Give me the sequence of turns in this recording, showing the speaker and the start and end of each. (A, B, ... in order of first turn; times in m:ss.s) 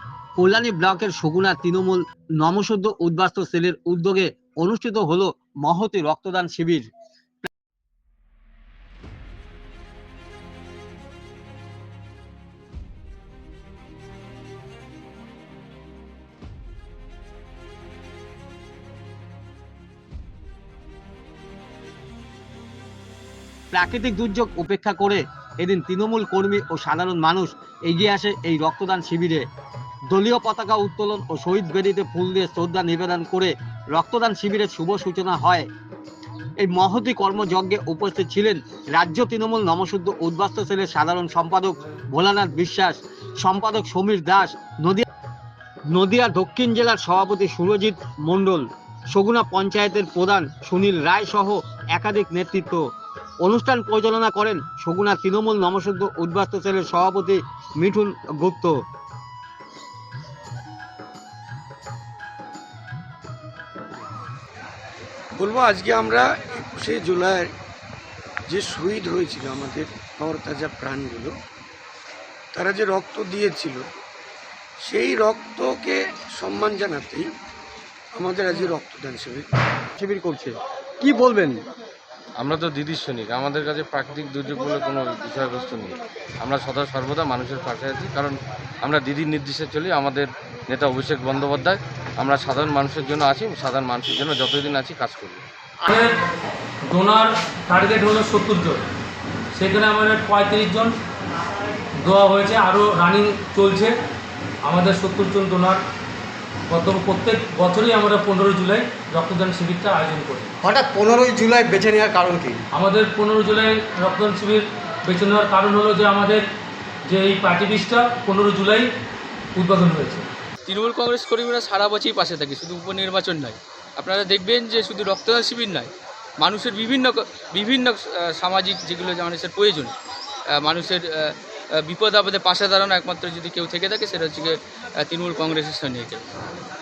0:00.4-0:06.9 A
0:23.7-0:29.4 A
0:30.1-0:35.7 A
0:36.6-0:45.1 A
0:45.9-0:52.9 A
0:53.4-0:58.8 A
1:05.4-1:07.5 B
1:08.5-1:11.3 B
1:12.5-1:14.0 B
1:14.8-1:17.3 B
1:18.2-1:19.5 B
1:20.0-1:21.6 A
1:22.4-1:35.4 C
1:35.8-1:36.2 D
1:36.9-1:38.8 D
1:39.6-1:40.9 D
1:42.0-1:44.0 D
1:44.6-1:45.8 D
1:46.7-1:50.5 D
1:50.6-1:52.6 A
1:52.7-1:56.4 D
1:57.1-1:58.9 D
1:59.6-2:00.3 D
2:00.7-2:09.9 E
2:10.5-2:16.2 E